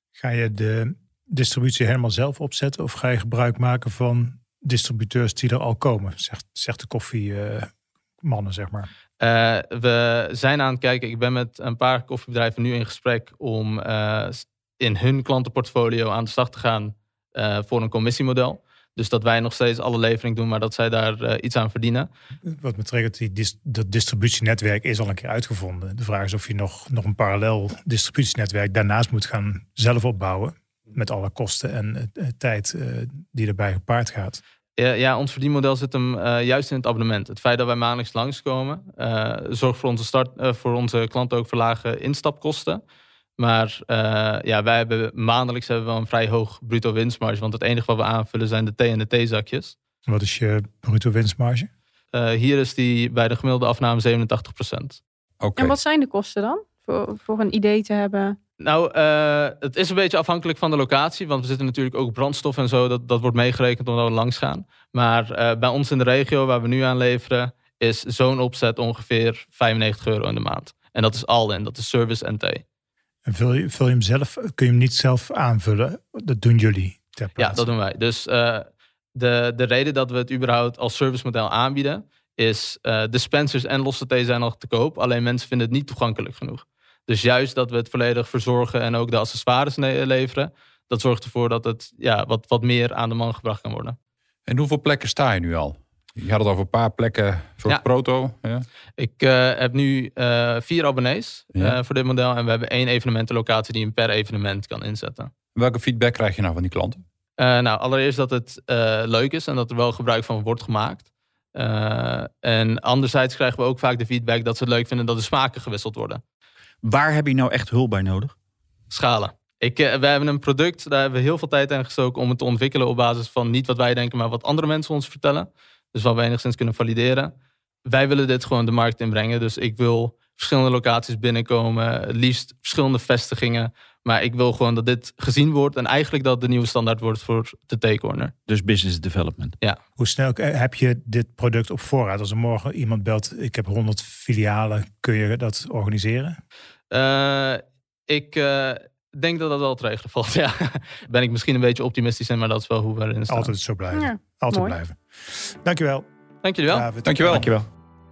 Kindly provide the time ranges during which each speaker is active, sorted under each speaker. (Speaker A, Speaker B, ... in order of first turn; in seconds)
Speaker A: 0.2-7.7, 8.2-8.9, 22.5-34.4, 50.1-51.7, 73.2-77.7, 140.0-146.4, 153.3-156.1, 156.7-157.5
Speaker B: 9.2-22.1, 34.8-42.8, 43.4-49.7, 52.1-55.0, 58.6-72.6, 77.4-94.0, 99.0-105.3, 107.4-116.2, 118.9-127.3, 127.8-138.3, 146.9-153.5, 156.4-156.9
Speaker C: 55.4-55.8, 94.5-98.7, 105.5-107.0, 157.0-157.5
Speaker D: 55.5-58.4, 153.9-154.8
Speaker E: 116.8-118.3, 138.5-139.6, 157.3-157.6